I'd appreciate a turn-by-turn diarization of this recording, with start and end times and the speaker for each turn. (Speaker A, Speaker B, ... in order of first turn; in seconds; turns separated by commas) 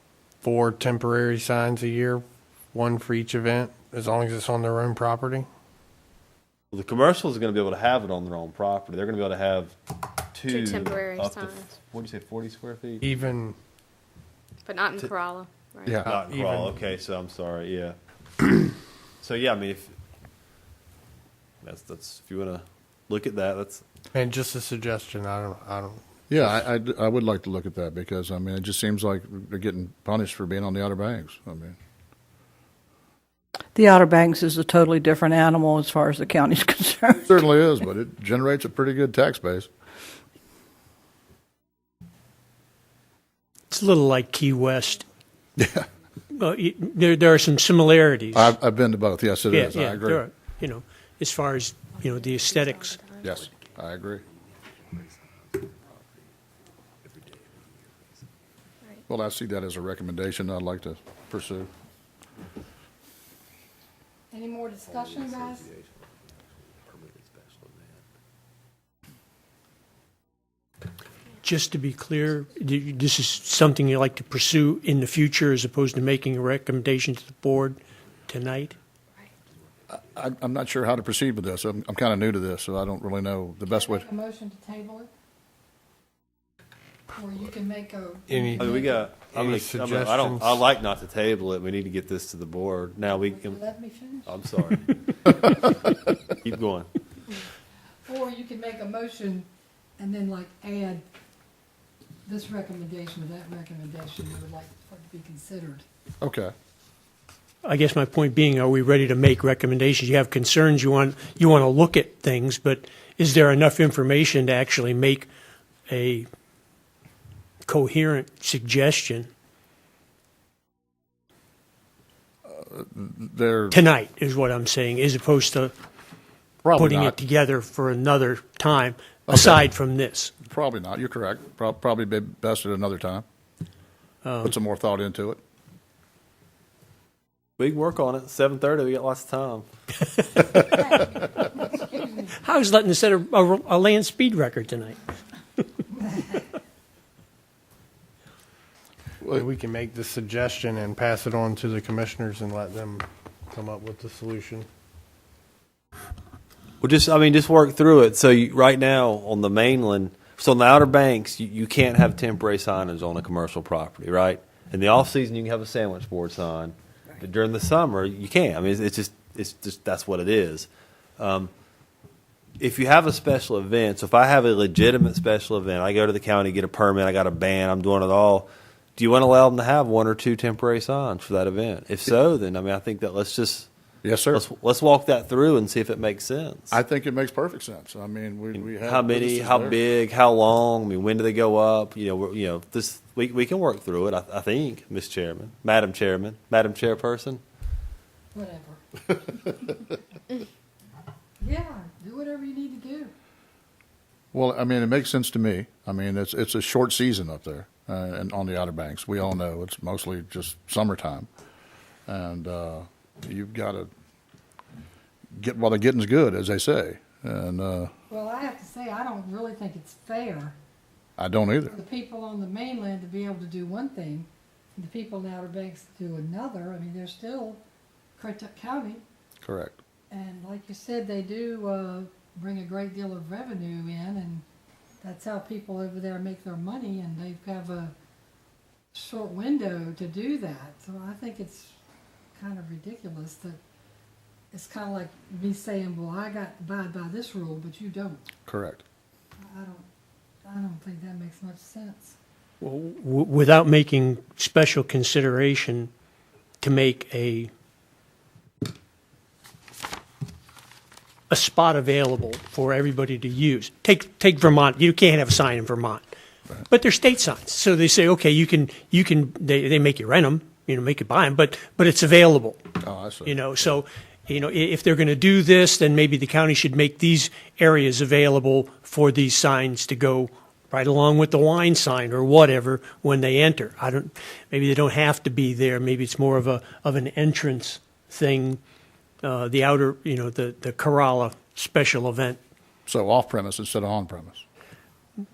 Speaker A: 0.4-5.5, Speaker B: 6.7-9.8, Speaker B: 10.3-13.1, Speaker C: 10.5-11.8, Speaker A: 13.0-13.6, Speaker C: 14.7-16.0, Speaker D: 15.8-16.1, Speaker A: 16.1-16.9, Speaker B: 16.1-17.9, Speaker B: 19.2-19.9, Speaker B: 21.6-23.9, Speaker A: 24.1-26.6, Speaker D: 26.3-31.8, Speaker E: 33.8-37.4, Speaker D: 37.3-39.7, Speaker F: 43.7-45.0, Speaker D: 45.6-45.9, Speaker F: 46.3-48.5, Speaker D: 48.3-50.2, Speaker F: 49.5-53.0, Speaker C: 52.5-53.3, Speaker D: 53.2-54.2, Speaker B: 54.7-56.0, Speaker B: 57.0-57.9, Speaker D: 59.1-61.7, Speaker G: 64.3-65.7, Speaker B: 64.8-65.9, Speaker B: 66.8-68.0, Speaker F: 71.4-78.8, Speaker D: 79.9-84.1, Speaker G: 83.7-85.1, Speaker G: 87.1-89.1, Speaker A: 88.3-90.7, Speaker B: 88.6-93.6, Speaker G: 93.1-94.4, Speaker B: 94.3-94.9, Speaker B: 96.4-96.9, Speaker G: 98.0-101.0, Speaker G: 102.2-105.8, Speaker D: 106.2-106.5, Speaker F: 107.6-115.3, Speaker F: 115.9-116.3, Speaker F: 117.7-119.3, Speaker D: 122.5-123.8, Speaker F: 123.7-125.7, Speaker D: 126.6-127.2, Speaker F: 126.8-130.3, Speaker D: 129.3-129.6, Speaker D: 130.4-133.2, Speaker F: 134.2-134.5, Speaker D: 134.4-135.4, Speaker B: 137.6-139.7, Speaker G: 141.7-142.2, Speaker F: 142.4-145.0, Speaker G: 146.0-146.4, Speaker A: 149.3-154.7, Speaker B: 156.8-171.5, Speaker B: 172.6-183.7, Speaker D: 184.0-184.4, Speaker B: 184.3-186.8, Speaker D: 186.7-189.8, Speaker B: 188.6-197.4, Speaker G: 198.3-198.8, Speaker G: 201.4-203.1, Speaker D: 204.3-211.3, Speaker D: 212.1-213.9, Speaker D: 215.4-217.9, Speaker G: 218.1-220.6, Speaker D: 221.2-221.8, Speaker G: 221.7-227.6, Speaker G: 228.2-229.0, Speaker D: 229.4-229.8, Speaker G: 230.1-234.4, Speaker G: 235.0-237.9, Speaker G: 238.9-241.8, Speaker G: 242.4-243.6, Speaker G: 244.5-248.2, Speaker D: 248.5-248.8, Speaker G: 249.4-249.9, Speaker G: 250.4-252.2, Speaker F: 252.6-255.9, Speaker F: 256.6-257.5, Speaker F: 261.3-266.0, Speaker F: 266.7-272.6, Speaker D: 272.8-273.4, Speaker F: 273.3-288.6, Speaker F: 289.2-292.4, Speaker D: 292.9-294.4